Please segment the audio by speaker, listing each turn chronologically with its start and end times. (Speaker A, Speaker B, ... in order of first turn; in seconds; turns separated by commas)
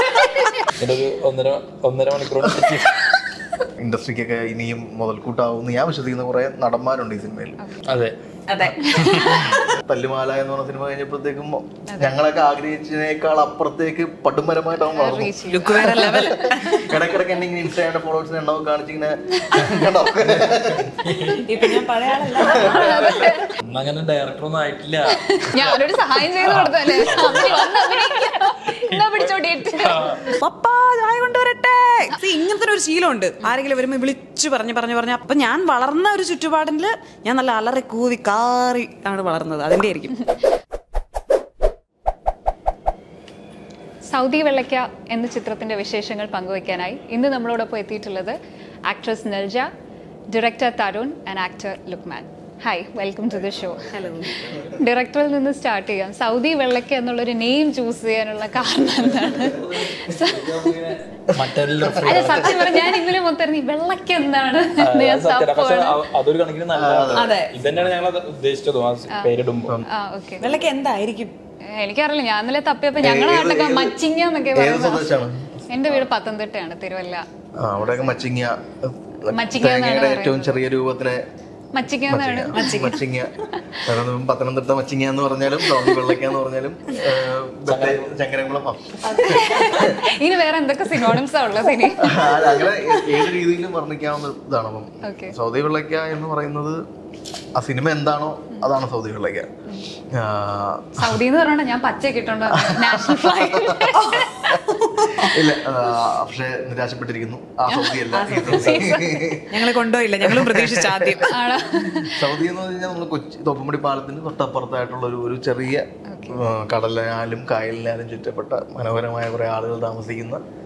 Speaker A: 0.7-3.2, Speaker B: 3.8-7.6, Speaker A: 7.9-9.6, Speaker C: 8.5-9.6, Speaker D: 8.8-9.3, Speaker B: 9.5-20.9, Speaker D: 11.9-12.2, Speaker D: 14.9-16.1, Speaker C: 15.4-16.9, Speaker D: 19.3-19.9, Speaker A: 20.2-21.7, Speaker C: 21.4-23.3, Speaker D: 22.4-23.6, Speaker B: 22.4-23.0, Speaker A: 22.5-30.3, Speaker D: 25.1-30.4, Speaker C: 30.3-40.1, Speaker D: 44.1-48.4, Speaker D: 48.9-49.7, Speaker D: 50.3-60.8, Speaker C: 53.9-54.4, Speaker A: 59.0-62.9, Speaker B: 61.4-62.7, Speaker D: 62.0-66.0, Speaker A: 64.8-69.8, Speaker B: 66.7-67.9, Speaker C: 67.1-67.5, Speaker D: 69.9-70.5, Speaker C: 70.4-71.3, Speaker D: 71.7-75.1, Speaker B: 73.0-74.0, Speaker B: 74.5-76.0, Speaker D: 75.7-77.2, Speaker B: 77.6-81.2, Speaker D: 79.3-80.6, Speaker D: 81.8-82.9, Speaker B: 82.1-90.0, Speaker C: 82.5-83.0, Speaker A: 87.7-88.1, Speaker C: 89.1-89.9, Speaker D: 89.2-92.2, Speaker B: 92.0-96.8, Speaker D: 95.0-95.3, Speaker B: 97.6-99.5, Speaker B: 100.1-101.2, Speaker D: 101.0-104.5, Speaker B: 102.5-104.6, Speaker C: 103.9-105.3, Speaker B: 105.1-109.6, Speaker C: 108.0-108.8, Speaker D: 108.5-109.4, Speaker C: 109.5-111.4, Speaker B: 110.2-111.3, Speaker D: 111.2-112.2, Speaker B: 112.0-120.4, Speaker D: 116.1-116.4